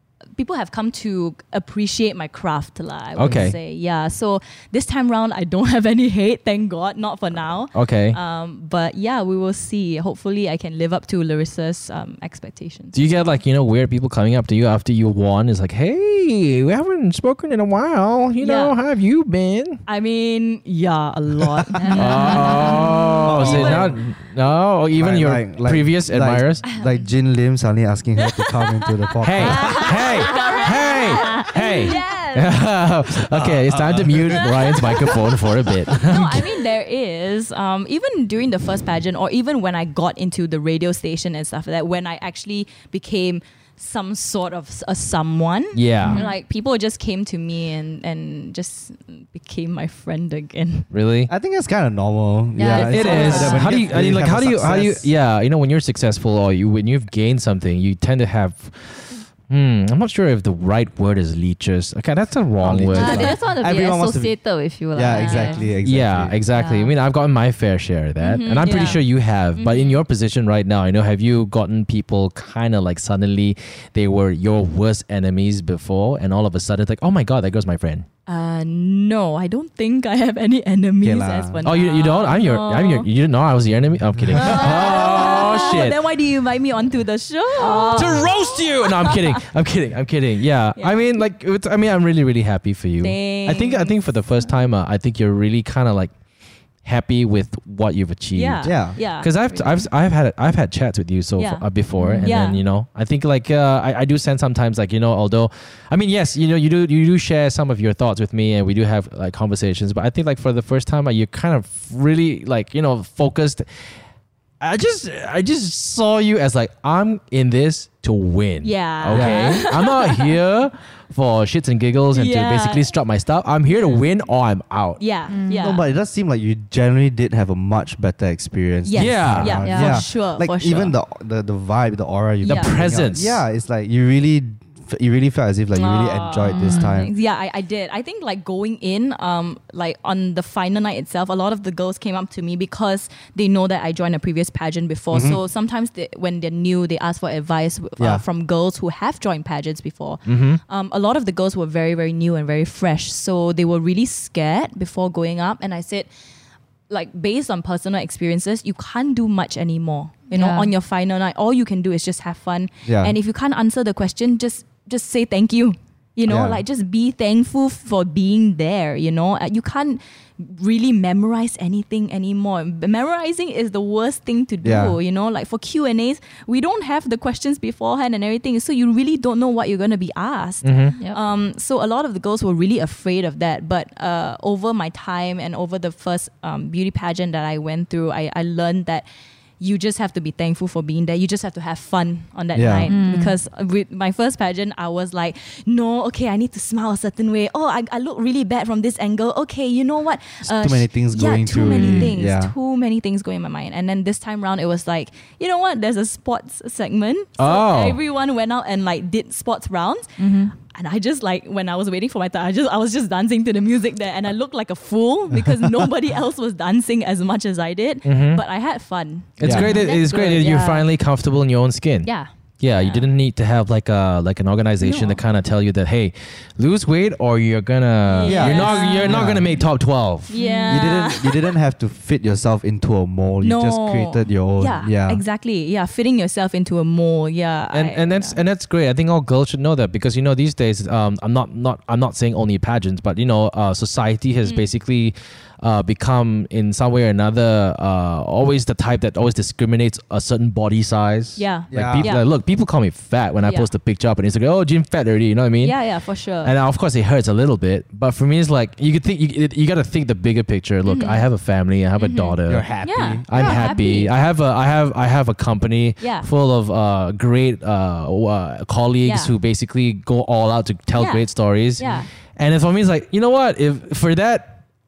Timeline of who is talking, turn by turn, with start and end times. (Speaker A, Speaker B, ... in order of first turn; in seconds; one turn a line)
Speaker A: 0.4-12.9
Speaker B: 3.1-3.6
Speaker B: 7.7-8.2
Speaker B: 12.9-19.8
Speaker A: 18.4-18.7
Speaker A: 19.9-23.9
Speaker C: 21.8-23.0
Speaker B: 21.9-26.6
Speaker D: 23.2-24.1
Speaker D: 24.9-29.9
Speaker A: 26.6-27.0
Speaker A: 28.2-32.6
Speaker B: 29.2-36.4
Speaker C: 29.5-32.2
Speaker D: 33.1-35.1
Speaker A: 34.4-34.8
Speaker A: 36.0-50.9
Speaker B: 45.7-46.2
Speaker C: 46.0-46.3
Speaker B: 50.9-51.3
Speaker D: 51.3-55.1
Speaker C: 52.5-53.8
Speaker B: 52.7-63.3
Speaker A: 52.7-53.6
Speaker D: 62.6-64.3
Speaker C: 62.9-65.7
Speaker A: 63.0-63.4
Speaker D: 64.9-66.4
Speaker A: 65.1-65.7
Speaker B: 65.8-78.1
Speaker C: 66.5-66.9
Speaker A: 68.2-70.0
Speaker A: 78.3-83.1
Speaker D: 81.0-81.7
Speaker B: 81.6-86.0
Speaker D: 84.2-84.7
Speaker A: 84.3-89.3
Speaker C: 87.6-88.2
Speaker B: 87.9-96.1
Speaker A: 90.8-91.0
Speaker A: 93.0-93.9
Speaker B: 96.8-113.6
Speaker A: 98.3-99.9
Speaker D: 98.6-99.0
Speaker A: 101.4-102.6
Speaker C: 102.0-102.3
Speaker B: 114.6-125.0
Speaker A: 118.6-120.3
Speaker D: 119.1-119.6
Speaker A: 122.1-122.9
Speaker A: 123.7-124.0
Speaker A: 125.0-125.8
Speaker C: 125.3-125.8
Speaker D: 125.6-137.1
Speaker A: 128.8-130.9
Speaker B: 129.0-129.7
Speaker C: 129.6-130.0
Speaker A: 132.4-132.8
Speaker B: 132.4-133.4
Speaker A: 135.7-156.1
Speaker C: 136.5-136.9
Speaker D: 145.1-145.4
Speaker B: 150.2-150.6
Speaker A: 156.9-189.1
Speaker C: 160.3-160.7
Speaker D: 162.8-163.1
Speaker D: 166.3-166.6
Speaker D: 174.6-175.0
Speaker B: 180.6-180.9
Speaker A: 189.6-220.9
Speaker D: 192.5-192.9
Speaker C: 192.8-193.4
Speaker D: 200.4-202.5
Speaker C: 201.7-202.1
Speaker B: 207.4-208.0
Speaker C: 210.2-210.5
Speaker B: 218.0-218.4
Speaker B: 219.4-230.4
Speaker D: 219.4-219.7
Speaker C: 219.5-220.5
Speaker A: 222.0-223.1
Speaker A: 224.8-225.2
Speaker A: 228.1-229.3
Speaker D: 228.2-229.5
Speaker A: 230.3-231.5
Speaker C: 230.3-230.9
Speaker D: 230.7-235.2
Speaker A: 233.4-238.4
Speaker B: 237.7-255.8
Speaker A: 251.4-252.2
Speaker D: 251.7-252.1
Speaker A: 253.4-253.7
Speaker A: 255.6-256.5
Speaker B: 256.4-262.7
Speaker A: 260.8-261.2
Speaker A: 262.0-264.1
Speaker D: 262.4-263.5
Speaker B: 263.3-274.6
Speaker A: 266.0-266.3
Speaker A: 269.0-269.3
Speaker A: 270.9-271.2
Speaker A: 271.8-272.1